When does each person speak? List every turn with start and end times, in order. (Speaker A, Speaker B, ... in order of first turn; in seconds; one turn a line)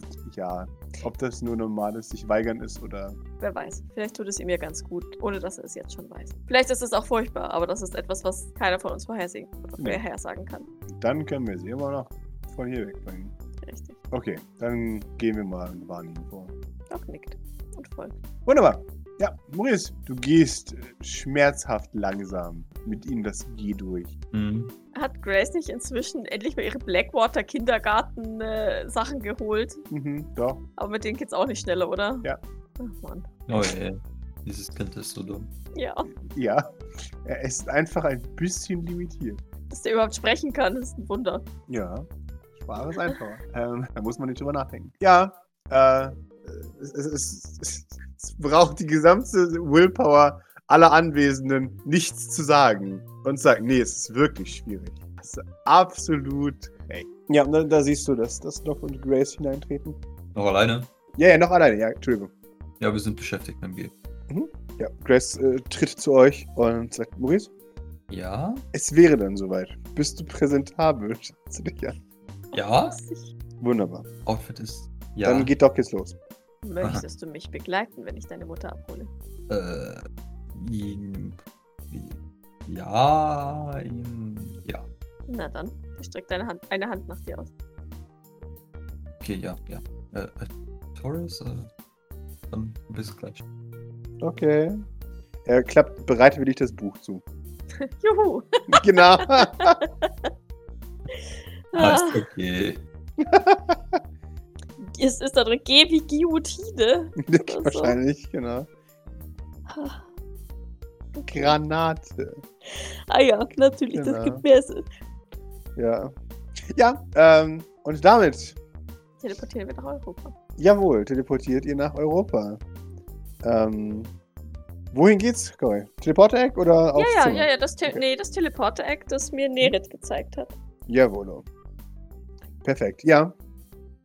Speaker A: 0.2-3.2
Speaker B: 3.4-10.7
Speaker A: 10.9-13.3
Speaker B: 13.6-14.0
Speaker A: 14.1-16.5
Speaker B: 16.9-18.1
Speaker A: 18.5-24.1
Speaker C: 24.3-24.7
Speaker B: 24.9-29.8
Speaker A: 29.9-30.6
Speaker B: 30.8-33.3
Speaker C: 33.5-35.5
Speaker B: 35.8-36.1
Speaker A: 36.1-39.4
Speaker B: 39.7-41.5
Speaker A: 41.7-60.0
Speaker C: 60.4-60.9
Speaker A: 61.2-62.3
Speaker C: 62.8-63.9
Speaker A: 64.3-67.5
Speaker C: 68.1-68.6
Speaker A: 68.7-72.0
Speaker B: 72.5-73.3
Speaker C: 72.5-73.0
Speaker A: 73.6-74.1
Speaker C: 74.2-75.5
Speaker A: 75.2-76.2
Speaker B: 76.6-79.1
Speaker C: 79.5-81.4
Speaker C: 81.9-84.9
Speaker B: 85.3-87.5
Speaker C: 89.2-91.7
Speaker C: 92.5-93.4
Speaker A: 94.2-94.8
Speaker A: 95.5-97.2
Speaker B: 97.8-100.1
Speaker A: 98.7-99.8
Speaker B: 101.7-102.2
Speaker C: 101.8-102.8
Speaker A: 103.2-104.0
Speaker B: 104.8-108.0
Speaker A: 107.2-108.7
Speaker B: 109.7-110.1
Speaker B: 111.2-111.5
Speaker A: 111.3-112.4
Speaker B: 112.7-114.9
Speaker A: 113.9-114.4
Speaker A: 115.8-116.1
Speaker A: 116.7-118.6
Speaker B: 119.2-120.3
Speaker A: 120.6-122.6
Speaker A: 123.4-124.1
Speaker A: 124.9-128.0
Speaker B: 127.0-130.5
Speaker A: 130.9-131.5
Speaker A: 132.6-133.3